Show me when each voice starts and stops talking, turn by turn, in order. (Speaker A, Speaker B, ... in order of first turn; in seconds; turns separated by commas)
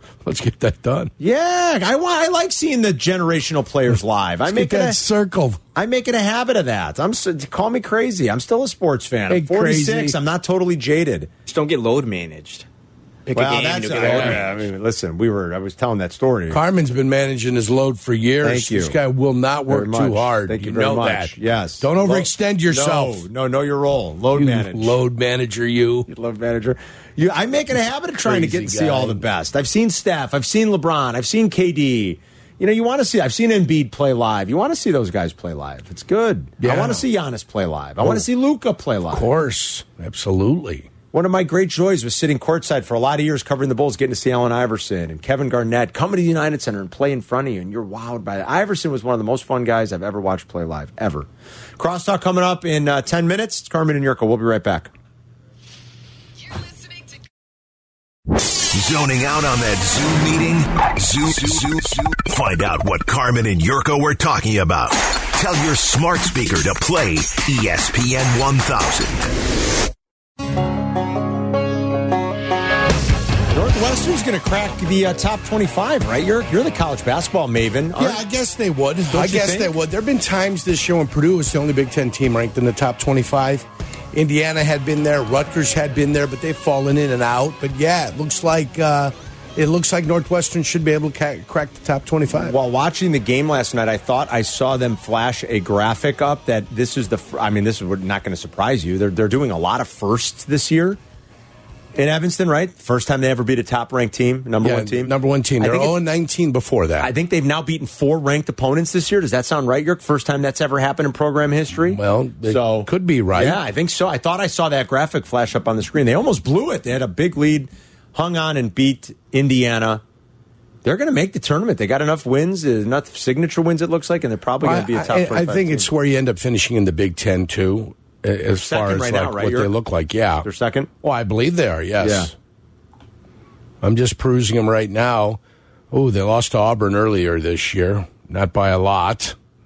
Speaker A: 0.2-1.1, Speaker B: 1.2-5.0, Speaker A: 4.5-5.6, Speaker B: 5.8-11.3, Speaker A: 9.3-10.2, Speaker C: 11.5-12.7, Speaker C: 13.3-14.5, Speaker B: 13.3-16.6, Speaker A: 16.5-23.2, Speaker B: 18.4-19.0, Speaker B: 19.7-25.0, Speaker A: 24.4-26.1, Speaker B: 26.1-39.3, Speaker A: 28.2-29.2, Speaker A: 36.6-37.0, Speaker A: 39.1-40.9, Speaker B: 41.1-54.9, Speaker D: 58.7-69.3, Speaker B: 73.5-78.2, Speaker A: 78.0-92.5, Speaker B: 79.1-79.8, Speaker B: 92.4-101.0, Speaker B: 102.0-106.0, Speaker A: 104.6-107.1, Speaker B: 107.0-120.0, Speaker A: 111.8-113.6, Speaker B: 120.8-125.9, Speaker A: 124.6-130.5, Speaker B: 128.5-129.7, Speaker B: 130.4-130.9, Speaker A: 131.0-132.3, Speaker B: 132.0-132.3, Speaker A: 133.8-135.4, Speaker A: 135.9-139.3